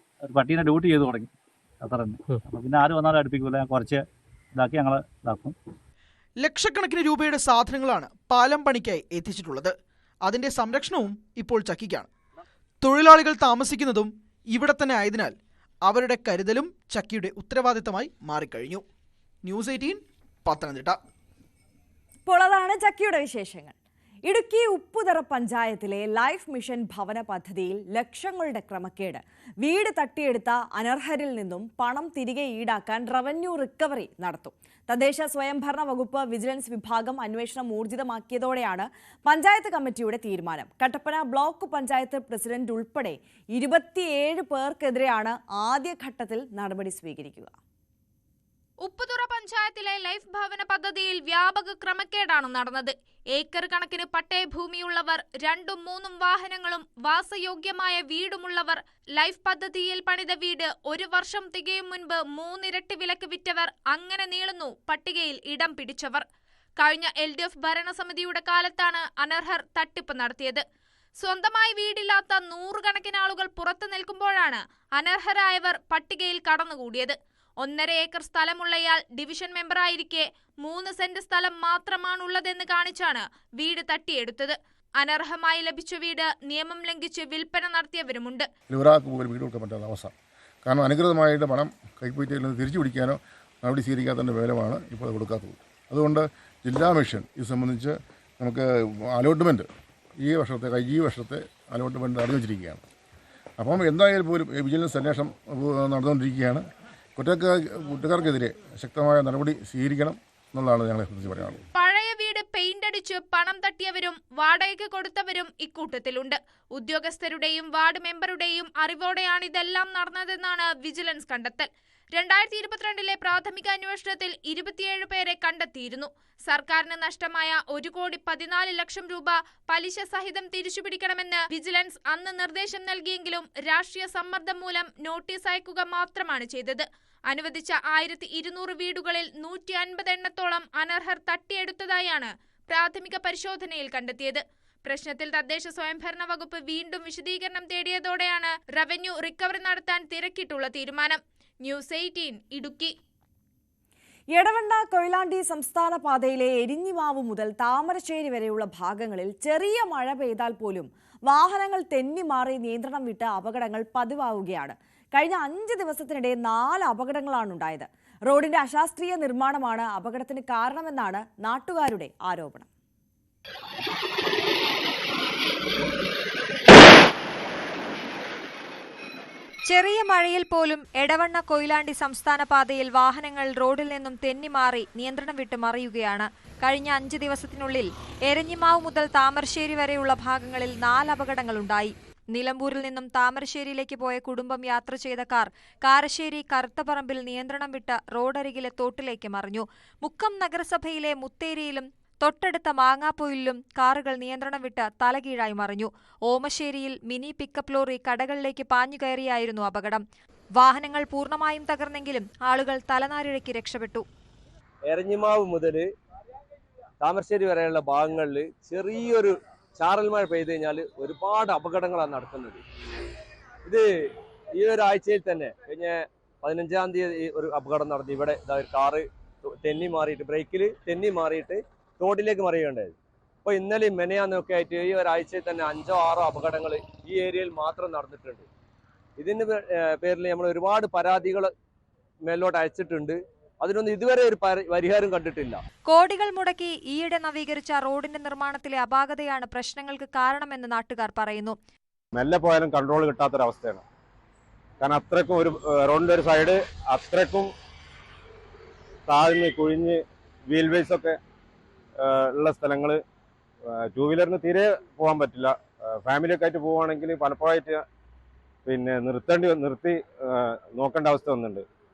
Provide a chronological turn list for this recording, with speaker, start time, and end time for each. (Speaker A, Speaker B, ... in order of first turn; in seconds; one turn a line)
Speaker A: 0.2-4.0
Speaker A: 4.5-5.5
Speaker B: 6.4-9.7
Speaker B: 10.3-12.1
Speaker B: 12.8-15.3
Speaker B: 15.9-18.9
Speaker B: 19.4-21.0
Speaker C: 22.3-23.8
Speaker C: 24.3-47.5
Speaker D: 48.8-66.2
Speaker D: 66.8-70.6
Speaker D: 71.2-88.5
Speaker E: 88.7-90.1
Speaker E: 90.7-99.7
Speaker E: 100.2-102.8
Speaker E: 103.6-106.6
Speaker E: 107.2-111.6
Speaker D: 111.8-152.9
Speaker C: 154.3-172.7
Speaker F: 179.7-210.0
Speaker F: 210.6-214.1
Speaker G: 214.9-215.9
Speaker G: 217.0-222.6
Speaker G: 224.6-238.5
Speaker G: 239.2-241.5
Speaker G: 242.3-245.6
Speaker F: 245.9-251.6
Speaker H: 252.2-253.8
Speaker H: 254.8-257.5
Speaker H: 259.1-261.2
Speaker H: 262.0-263.0
Speaker H: 263.9-267.8
Speaker H: 268.7-271.6